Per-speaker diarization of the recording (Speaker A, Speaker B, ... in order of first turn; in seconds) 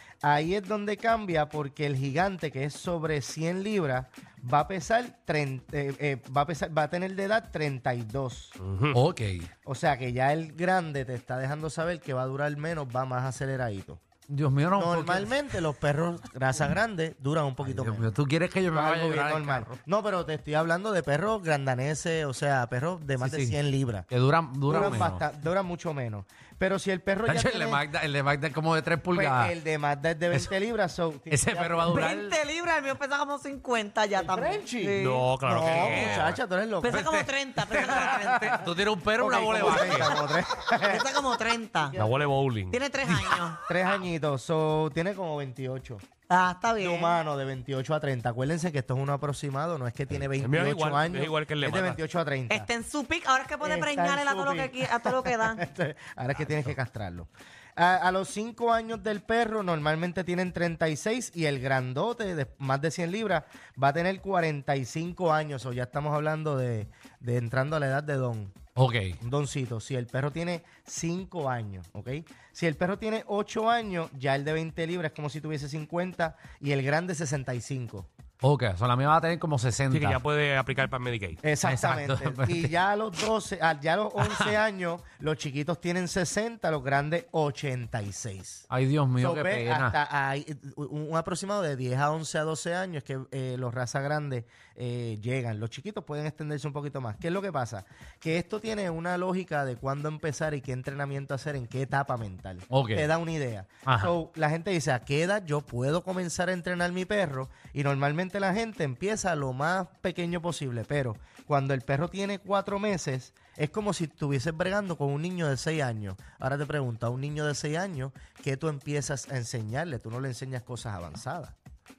Speaker A: 0.2-8.6, 9.7-14.0, 14.8-18.1, 18.7-24.1, 24.7-27.8, 29.1-32.0, 34.1-37.1, 39.2-41.1, 41.9-42.4, 43.7-46.0, 46.8-52.7, 53.6-68.6, 69.2-78.1, 81.4-88.7, 89.2-121.5
Speaker B: 8.6-9.0, 35.0-36.3, 42.0-42.8, 50.3-52.0, 79.9-81.4
Speaker C: 8.9-9.5, 14.3-15.4, 17.6-19.8, 23.2-23.6, 24.1-25.2, 27.3-29.5, 31.3-32.4, 35.5-40.1, 68.8-69.2, 78.4-80.2, 81.5-82.7, 84.2-84.6, 88.7-90.0, 102.7-103.1, 103.9-104.1
Speaker D: 31.9-35.3, 36.8-38.6, 39.6-40.2, 40.8-42.0, 42.7-43.6, 46.3-47.2, 52.5-55.6